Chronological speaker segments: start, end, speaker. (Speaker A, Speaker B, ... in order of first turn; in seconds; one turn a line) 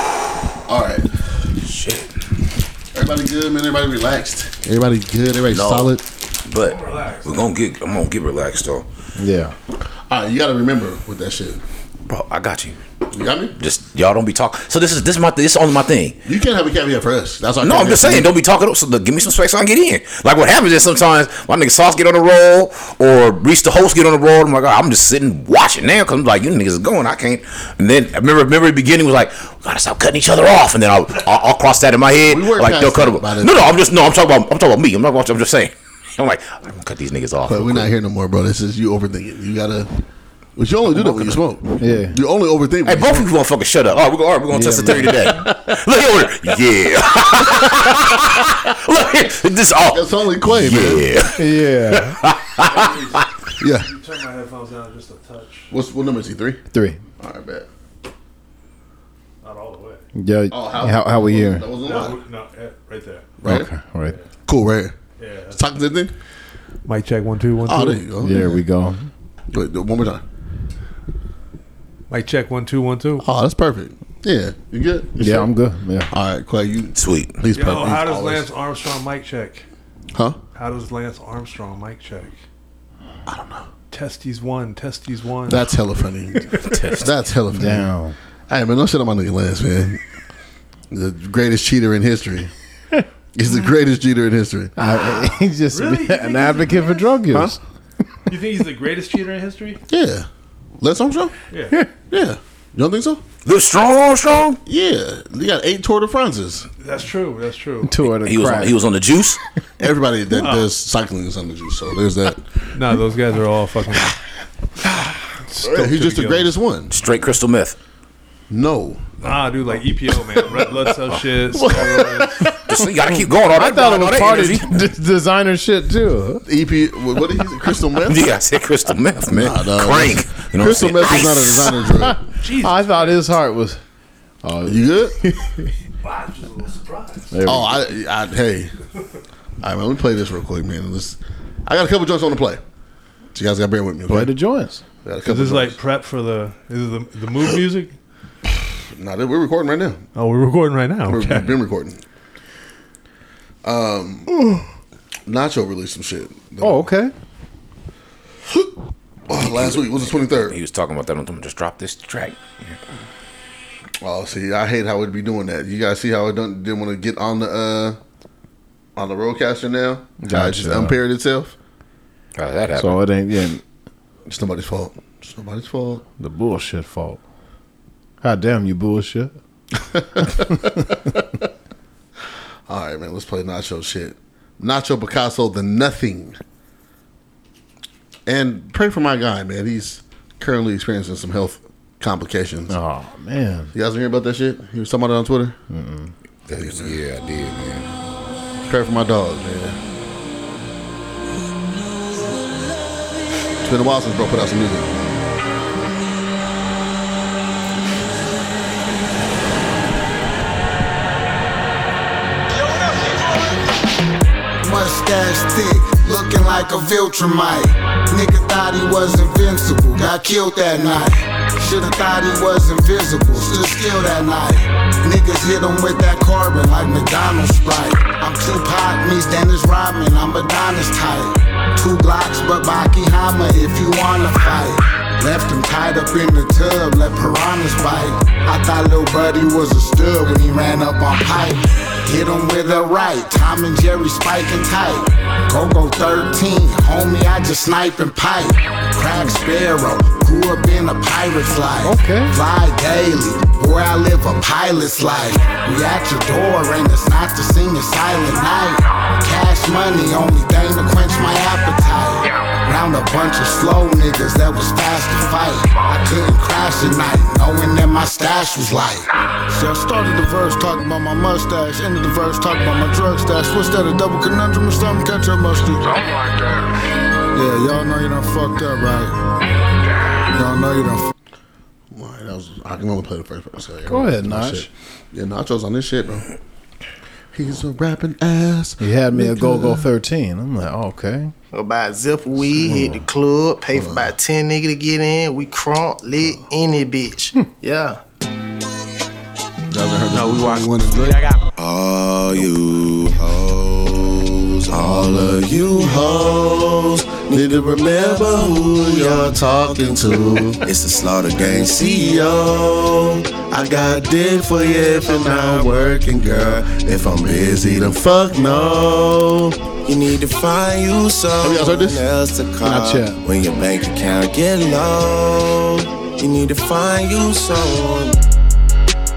Speaker A: 0.7-1.2
Speaker B: 1.6-2.1
Speaker A: 2.9-6.0
Speaker B: 5.5-5.9
Speaker B: 6.5-8.8
Speaker C: 6.9-7.2
Speaker D: 9.2-9.5
Speaker A: 10.1-11.6
Speaker B: 12.1-12.8
Speaker A: 13.1-13.5
Speaker B: 13.6-16.2
Speaker A: 16.3-18.4
Speaker B: 17.6-37.9
Speaker A: 32.3-33.7
Speaker A: 37.5-39.9
Speaker A: 40.6-43.3
Speaker D: 41.8-42.2
Speaker B: 42.9-53.3
Speaker D: 44.5-45.4
Speaker A: 49.9-51.1
Speaker D: 51.4-52.2
Speaker C: 52.6-53.2
Speaker A: 53.6-53.9
Speaker C: 53.8-55.7
Speaker A: 55.7-56.6
Speaker D: 56.7-57.0
Speaker A: 57.2-57.7
Speaker C: 59.4-60.0
Speaker D: 60.1-61.7
Speaker A: 60.5-62.2
Speaker C: 61.8-63.4
Speaker A: 63.4-63.7
Speaker D: 63.4-64.2
Speaker A: 64.5-65.0
Speaker C: 65.2-65.6
Speaker A: 65.5-66.1
Speaker C: 66.9-68.0
Speaker A: 67.7-68.6
Speaker D: 68.2-69.1
Speaker A: 69.5-70.2
Speaker C: 72.1-73.3
Speaker A: 73.2-75.5
Speaker D: 75.2-76.1
Speaker A: 76.1-78.5
Speaker B: 77.0-77.4
Speaker C: 77.6-79.7
Speaker A: 80.1-80.4
Speaker C: 80.5-82.4
Speaker A: 83.3-83.7
Speaker C: 83.9-85.6
Speaker A: 85.5-87.9
Speaker B: 86.6-87.0
Speaker D: 87.5-88.2
Speaker A: 88.5-90.0
Speaker A: 90.9-92.5
Speaker A: 93.3-94.7
Speaker D: 94.8-97.6
Speaker C: 95.7-97.2
Speaker C: 98.3-99.8
Speaker A: 99.9-100.3
Speaker A: 100.8-101.4
Speaker A: 102.1-103.2
Speaker B: 103.5-104.6
Speaker A: 104.7-106.7
Speaker C: 106.8-107.9
Speaker D: 107.8-108.8
Speaker B: 108.1-109.4
Speaker A: 109.8-112.4
Speaker C: 110.4-110.7
Speaker C: 112.7-114.1
Speaker C: 115.5-116.5
Speaker A: 115.6-116.9
Speaker B: 116.9-117.8
Speaker A: 118.5-119.0
Speaker C: 119.2-122.5
Speaker A: 121.7-122.2
Speaker B: 122.7-124.7
Speaker D: 122.8-126.4
Speaker A: 126.5-128.3
Speaker B: 128.1-131.9
Speaker A: 129.3-132.2
Speaker D: 132.0-133.8
Speaker C: 132.4-133.2
Speaker D: 134.4-135.7
Speaker A: 134.7-135.2
Speaker C: 136.0-137.3
Speaker D: 137.3-137.7
Speaker A: 137.5-138.7
Speaker A: 139.6-142.6
Speaker A: 143.3-144.3
Speaker D: 144.1-144.8
Speaker A: 145.0-145.8
Speaker C: 145.2-147.9
Speaker A: 148.9-150.0
Speaker C: 150.2-151.5
Speaker A: 151.1-152.0
Speaker A: 153.6-154.3
Speaker A: 155.3-156.8
Speaker D: 156.6-157.1
Speaker A: 159.3-160.6
Speaker B: 159.5-159.8
Speaker B: 160.5-162.7
Speaker A: 164.0-168.0
Speaker A: 169.0-171.6
Speaker D: 170.2-171.0
Speaker B: 172.4-173.0
Speaker D: 172.8-173.6
Speaker A: 174.3-176.0
Speaker D: 176.2-177.2
Speaker D: 178.2-179.3
Speaker A: 179.9-181.2
Speaker A: 182.7-186.4
Speaker A: 188.3-192.8
Speaker D: 192.7-193.7
Speaker A: 193.7-195.6
Speaker D: 195.7-196.1
Speaker B: 196.5-197.9
Speaker A: 196.5-197.0
Speaker A: 198.7-199.8
Speaker A: 203.6-204.9
Speaker E: 214.6-276.6
Speaker D: 251.8-252.3
Speaker E: 277.3-279.2
Speaker E: 280.3-281.1
Speaker A: 281.9-286.3
Speaker D: 283.9-284.7
Speaker A: 287.3-289.9
Speaker D: 288.8-291.3
Speaker F: 291.5-298.0
Speaker A: 292.6-292.9
Speaker A: 293.7-294.1
Speaker A: 299.7-301.2
Speaker G: 300.1-319.2
Speaker A: 304.7-305.9
Speaker A: 307.3-310.6
Speaker A: 315.0-319.5
Speaker G: 319.9-328.2
Speaker A: 321.4-322.0
Speaker D: 322.6-323.2